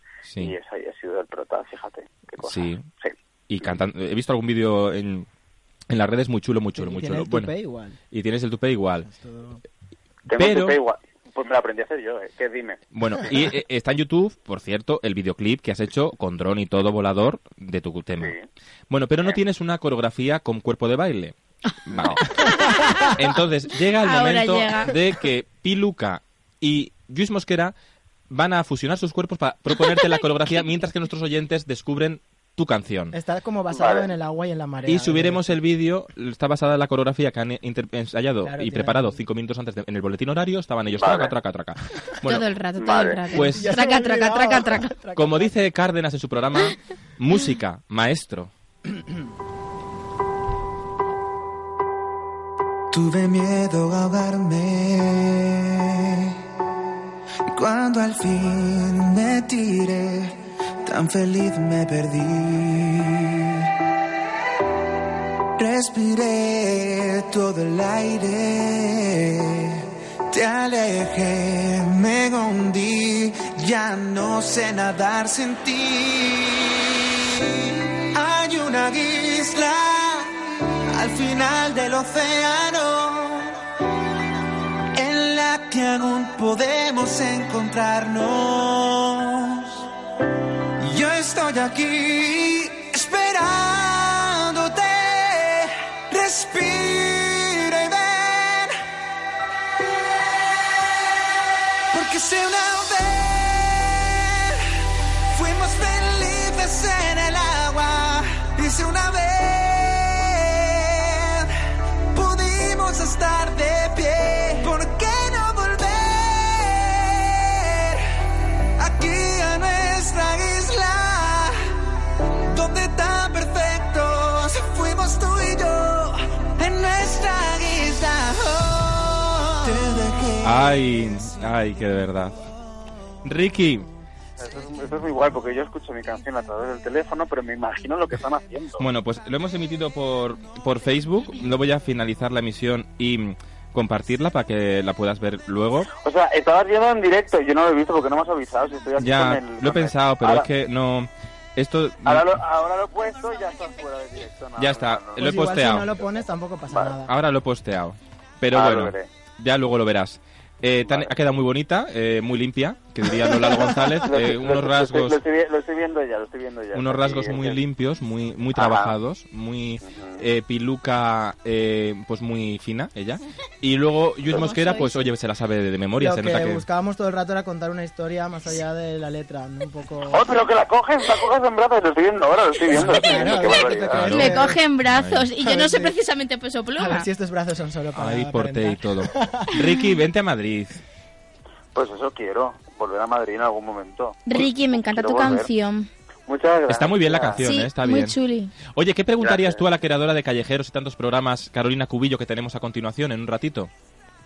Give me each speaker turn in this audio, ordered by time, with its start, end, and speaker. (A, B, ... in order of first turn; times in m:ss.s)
0:00.3-0:00.5 A
0:00.4-0:03.7 B
0:02.4-0:02.8 A
0:03.5-0:05.3 A
0:05.9-0:07.5 A
0:06.8-0:08.0 C
0:08.1-0:09.1 A
0:09.1-0:09.6 C
0:10.3-0:12.8 B
0:10.4-0:10.8 A
0:12.9-0:18.3 A
0:18.2-0:18.5 B
0:18.9-0:21.4 A
0:21.9-0:22.6 A
0:22.2-0:23.2 D
0:23.1-0:27.7 A
0:24.0-0:25.0 D
0:28.3-0:33.2 A
0:33.1-0:35.6 C
0:33.7-0:34.1 B
0:34.9-0:42.5 A
0:38.4-0:39.2 C
0:41.0-0:41.3 B
0:42.2-0:45.0 D
0:42.8-0:43.2 B
0:43.3-0:43.7 A
0:43.4-0:45.6 C
0:45.2-0:48.5 A
0:52.9-0:56.4 E
0:57.5-1:03.7 E
1:05.6-1:20.3 E
1:20.9-1:23.6 E
1:24.9-1:29.9 E
1:30.8-1:38.8 E
1:41.9-1:51.5 E
1:52.1-1:58.2 E
1:58.8-2:01.7 E
2:02.5-2:10.9 E
2:10.4-2:12.4 A
2:13.2-2:13.9 A
2:14.4-2:18.8 B
2:18.8-2:25.9 A
2:26.0-2:30.5 B
2:29.0-2:32.4 A
2:32.0-2:35.5 B
2:34.6-2:35.9 A
2:35.2-2:37.1 C
2:37.1-2:45.2 A
2:38.5-2:39.1 B
2:40.8-2:41.1 B
2:44.0-2:47.6 B
2:46.7-2:56.6 A
2:48.6-2:48.9 B
2:49.8-2:50.2 B
2:54.3-2:55.0 D
2:56.0-3:00.3 C
3:00.1-3:04.1 B
3:02.7-3:04.6 C
3:03.0-3:03.4 D
3:03.9-3:05.2 A
3:04.0-3:07.1 D
3:05.4-3:06.0 C
3:06.8-3:09.5 C
3:08.0-3:10.8 A
3:11.8-3:15.5 B
3:14.3-3:15.9 D
3:16.3-3:17.4 B
3:16.7-3:23.7 A
3:17.4-3:18.5 D
3:19.2-3:19.6 B